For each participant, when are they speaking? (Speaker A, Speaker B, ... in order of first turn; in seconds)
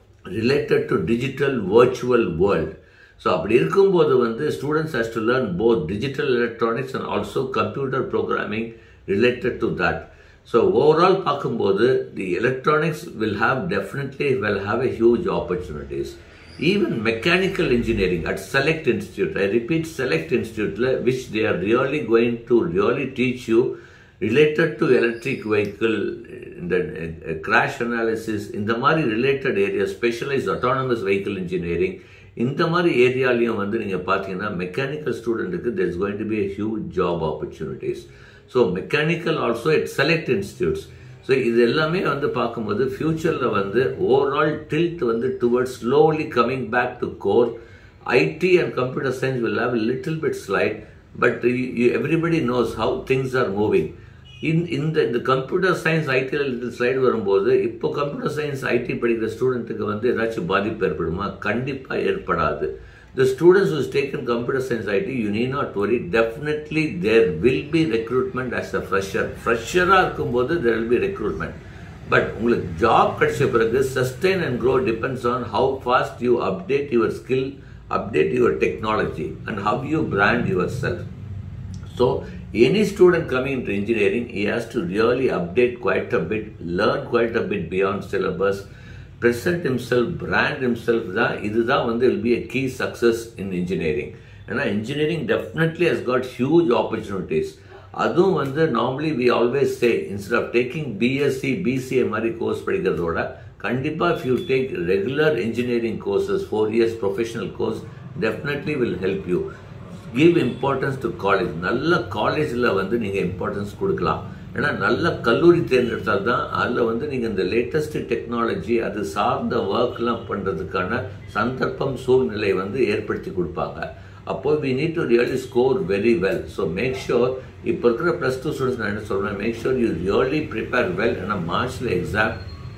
Speaker A: 0.3-47.5, 48.1-71.6, 72.1-81.0, 81.9-88.7, 89.2-109.5, 110.1-132.4